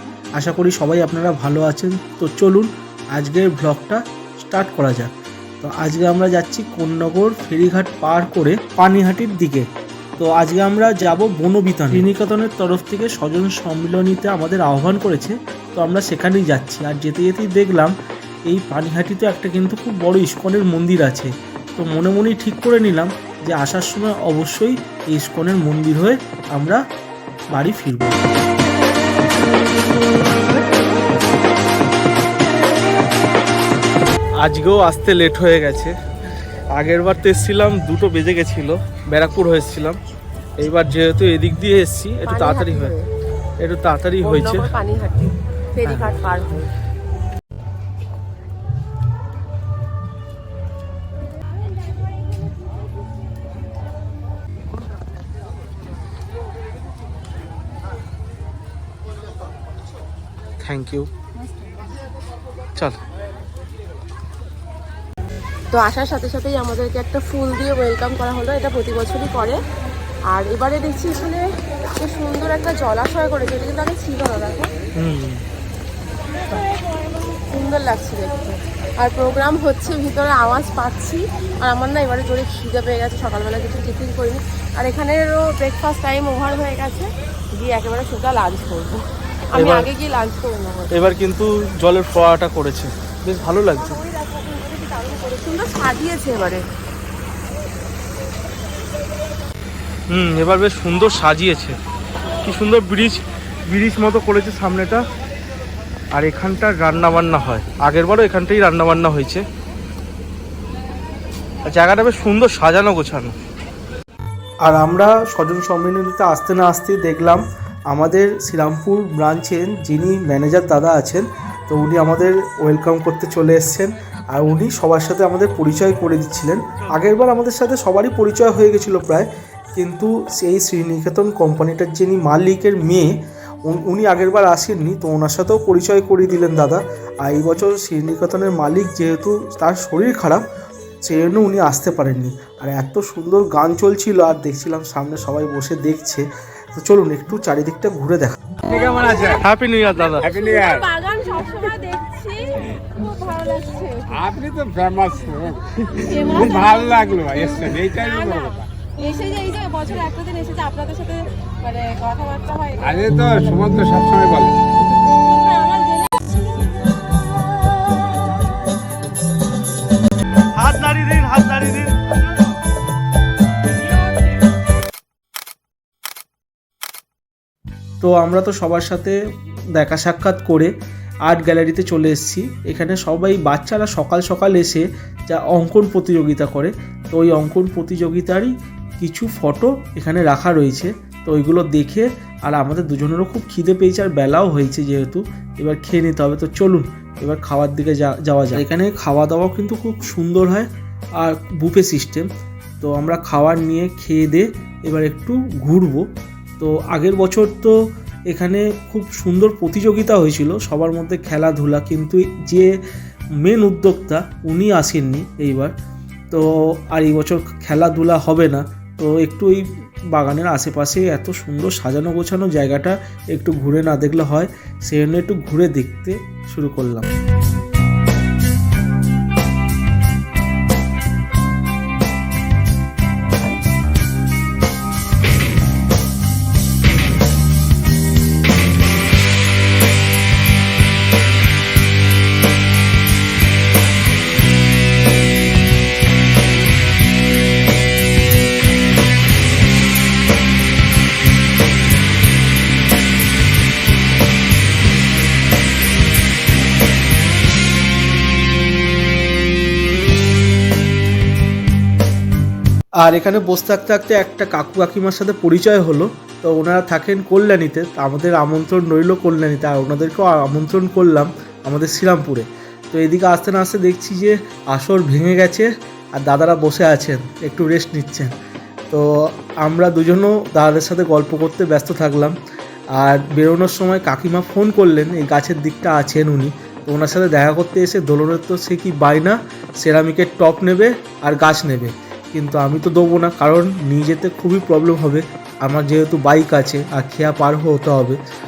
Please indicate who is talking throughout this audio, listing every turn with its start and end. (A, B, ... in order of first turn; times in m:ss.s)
0:00.4-0:09.7 A
0:10.2-0:17.9 A
0:18.4-0:26.8 A
0:27.5-0:28.2 A
0:34.4-0:36.0 A
0:36.7-0:40.0 A
0:40.6-0:42.9 A
0:42.3-0:43.0 B
0:43.6-0:44.7 A
0:44.2-0:46.7 B
0:45.8-0:46.1 A
1:00.6-1:01.1 A
1:05.7-1:09.6 B
1:10.3-1:11.4 B
1:12.0-1:14.7 B
1:15.0-1:15.4 A
1:17.3-1:30.9 B
1:29.5-1:29.9 A
1:30.9-1:34.0 A
1:33.8-1:36.6 B
1:40.1-1:41.8 A
1:42.4-1:45.0 A
1:46.1-1:49.4 A
1:51.6-1:53.4 A
1:54.6-2:20.4 A
2:21.0-2:28.5 A
2:28.7-2:29.4 B
2:29.3-2:30.3 A
2:30.1-2:34.1 B
2:30.2-2:30.8 C
2:34.1-2:38.7 C
2:36.1-2:36.6 B
2:37.9-2:42.8 B
2:42.8-2:44.6 C
2:45.1-2:46.5 B
2:50.6-2:52.0 A
2:58.0-2:59.2 A
2:59.7-3:00.7 A
3:01.3-3:22.3 A
3:22.8-3:26.1 A
3:26.6-3:27.7 A
3:28.3-3:32.8 A
3:33.4-3:35.7 A
3:36.3-3:47.1 A
4:23.0-4:38.3 A
4:38.9-4:42.4 A
4:43.0-4:58.2 A